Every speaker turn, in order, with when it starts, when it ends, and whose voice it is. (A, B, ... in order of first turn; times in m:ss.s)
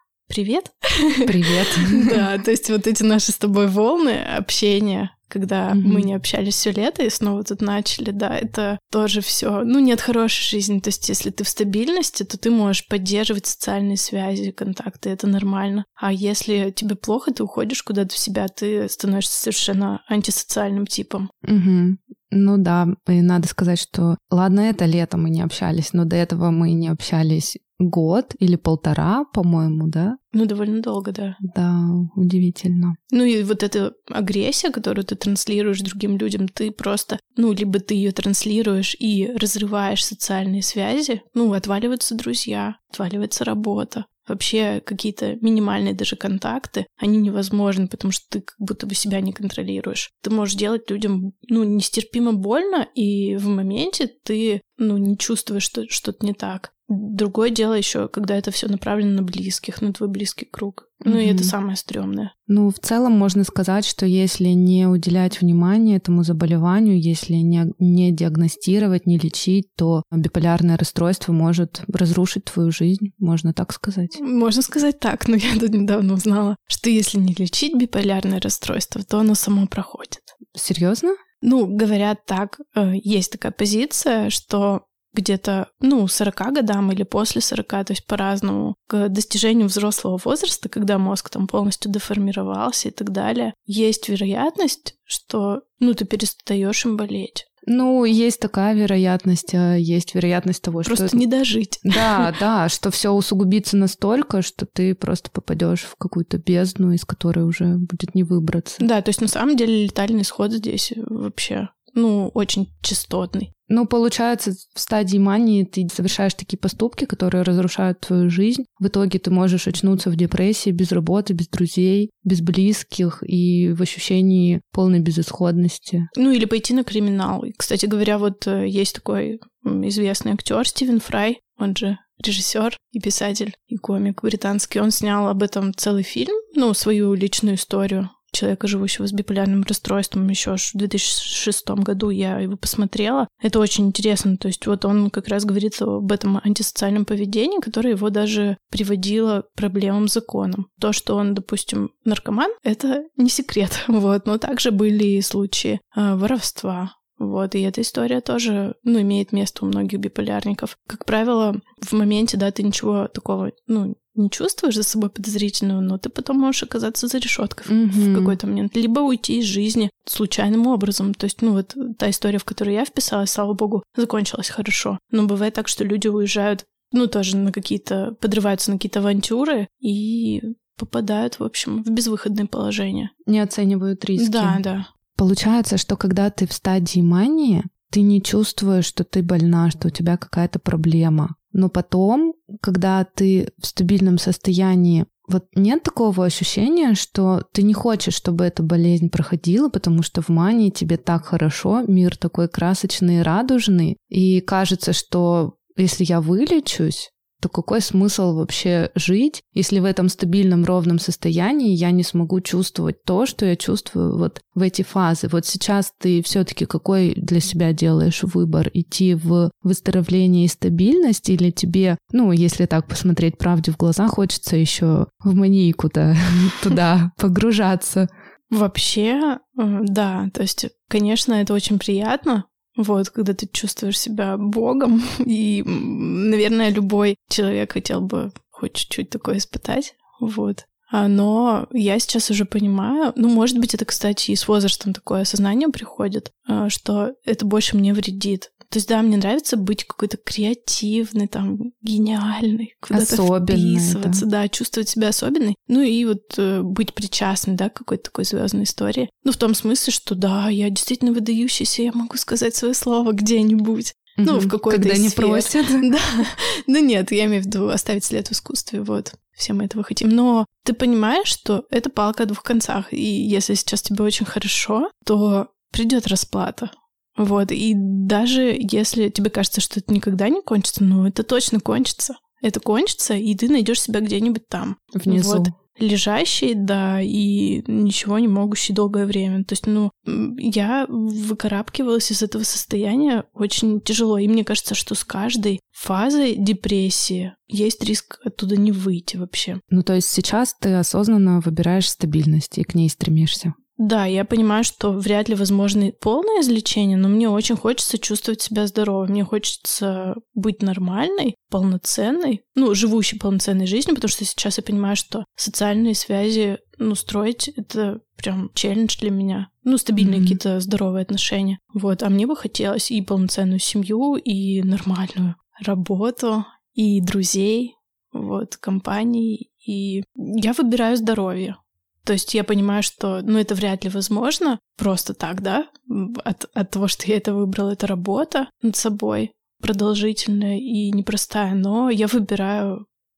0:00.3-0:21.3 A
0:01.3-0:02.2 B
0:05.7-0:06.1 B
0:21.4-0:30.2 B
0:30.3-0:31.4 A
0:31.4-0:33.0 B
0:33.1-1:02.3 A
1:01.0-1:01.5 B
1:02.5-1:14.2 B
1:14.2-1:20.4 A
1:20.5-1:21.2 B
1:21.4-1:37.4 A
1:37.7-1:41.2 B
1:40.8-1:42.3 A
1:41.8-1:48.8 B
1:48.8-1:53.5 A
1:53.7-2:06.1 B
2:06.2-3:03.1 A
2:47.7-2:48.4 B
3:03.3-3:04.6 B
3:04.2-3:04.9 A
3:05.2-3:48.1 B
3:48.5-4:59.6 A
4:12.9-4:14.2 B
4:24.2-4:25.9 B
4:45.0-4:45.5 B
4:59.7-5:03.5 B
5:03.8-5:42.8 A
5:20.0-5:20.4 B